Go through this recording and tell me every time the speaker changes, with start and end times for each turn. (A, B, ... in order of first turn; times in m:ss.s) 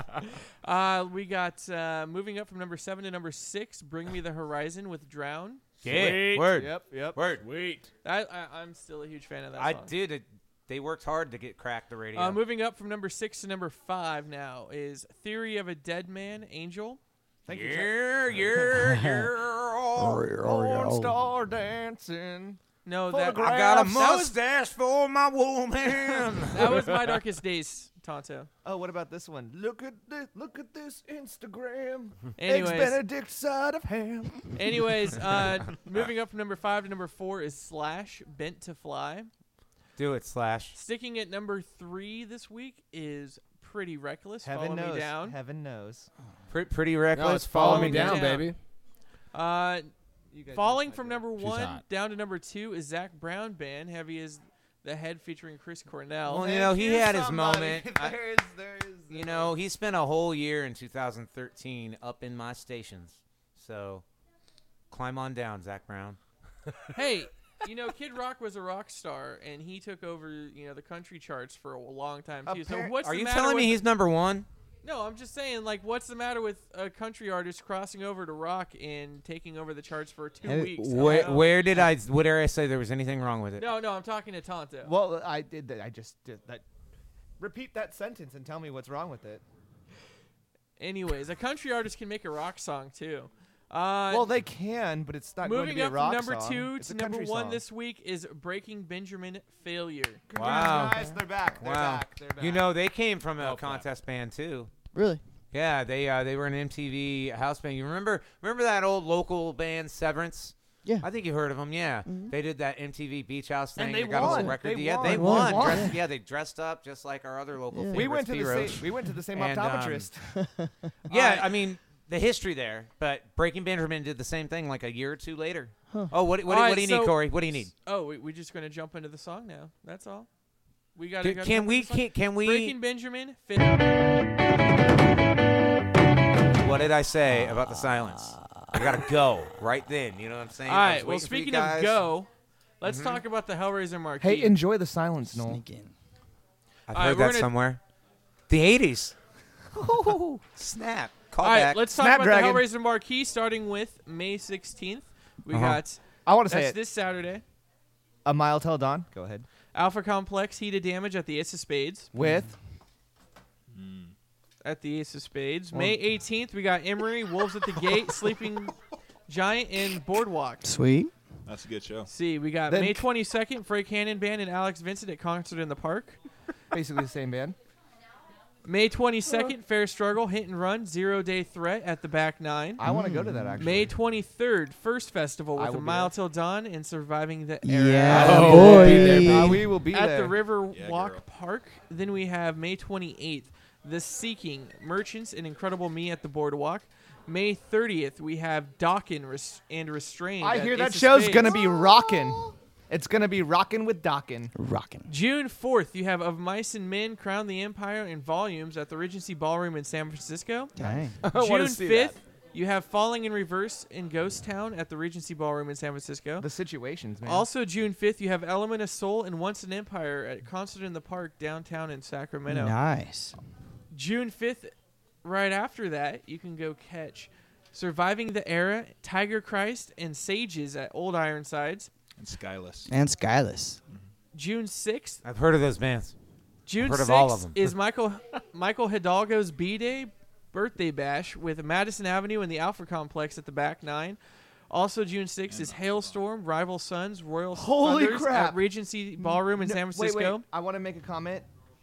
0:00.6-0:05.6 A
0:05.8-0:06.6 B
0:05.8-0:07.4 C
0:06.5-0:07.2 D
0:07.4-0:07.9 B
0:08.0-0:09.9 A
0:09.6-0:12.4 C
0:12.1-0:17.0 A
0:17.5-0:18.8 D
0:17.5-0:20.2 C
0:18.8-0:19.2 E
0:20.0-0:21.2 E
0:20.2-0:24.3 D
0:22.8-0:24.3 A
0:23.4-0:26.8 C
0:26.5-0:28.5 A
0:28.6-0:34.9 D
0:32.4-0:33.0 A
0:34.5-0:39.3 A
0:40.0-0:40.8 C
0:40.8-0:45.4 A
0:44.4-0:46.1 D
0:46.5-0:48.1 C
0:47.1-0:48.6 B
0:47.5-0:48.3 D
0:47.6-0:48.5 A
0:49.3-0:49.9 A
0:50.3-0:51.3 D
0:50.5-0:56.5 A
0:51.4-0:51.8 B
0:56.3-0:58.2 C
0:56.3-0:59.5 D
0:59.1-1:04.0 C
1:04.9-1:06.2 C
1:06.9-1:13.8 A
1:12.5-1:13.0 D
1:13.0-1:14.5 C
1:14.8-1:21.6 A
1:20.4-1:21.3 E
1:20.9-1:23.7 C
1:23.6-1:24.9 A
1:24.8-1:26.6 D
1:27.4-1:29.4 D
1:30.8-1:34.3 A
1:34.1-1:37.6 D
1:35.4-1:40.2 A
1:40.3-1:42.7 D
1:40.3-1:44.7 C
1:43.4-1:43.8 B
1:44.9-1:45.2 E
1:45.5-2:00.1 C
1:52.0-1:52.4 E
1:53.8-1:56.0 D
1:54.2-1:56.0 E
1:57.7-1:58.1 E
1:57.9-2:00.4 D
2:00.3-2:00.9 E
2:01.1-2:07.7 C
2:01.1-2:01.4 D
2:01.1-2:01.4 A
2:05.9-2:06.1 E
2:06.5-2:10.3 A
2:11.0-2:13.8 A
2:11.2-2:12.8 C
2:16.6-2:22.0 C
2:17.3-2:19.0 E
2:20.6-2:24.6 A
2:22.8-2:23.2 C
2:24.2-2:25.6 D
2:25.3-2:26.0 E
2:26.9-2:27.8 C
2:26.9-2:27.5 A
2:28.5-2:29.2 C
2:29.7-2:30.4 D
2:30.6-2:31.9 C
2:31.4-2:37.4 A
2:32.0-2:32.7 D
2:35.5-2:35.8 C
2:36.2-2:36.8 D
2:38.2-2:39.5 D
2:39.7-2:42.1 A
2:42.1-2:42.5 D
2:42.2-2:42.5 E
2:43.7-2:44.1 F
2:44.6-2:48.8 A
2:45.7-2:46.0 D
2:49.3-2:50.7 A
2:50.6-2:51.1 E
2:51.5-2:52.1 F
2:52.1-2:56.2 A
2:52.7-2:53.0 D
2:56.7-2:57.6 D
2:58.6-3:02.8 A
3:02.8-3:04.0 D
3:02.8-3:03.6 E
3:03.6-3:21.6 A
3:05.6-3:06.1 D
3:07.6-3:09.7 E
3:08.1-3:10.4 D
3:08.1-3:09.7 B
3:10.7-3:11.2 F
3:20.4-3:24.5 D
3:24.6-3:25.1 E
3:25.1-3:36.5 A
3:30.8-3:31.1 D
3:30.8-3:31.2 E
3:31.2-3:32.2 B
3:36.4-3:37.5 D
3:37.2-3:42.8 A
3:42.5-3:43.4 E
3:43.9-3:51.9 A
3:52.2-3:52.9 F
3:52.9-3:53.8 E
3:54.3-3:55.2 A
3:55.2-3:56.1 C
3:56.7-4:04.2 A
3:56.8-3:57.6 C
4:04.7-4:10.4 A
4:05.5-4:06.2 F
4:07.5-4:11.5 D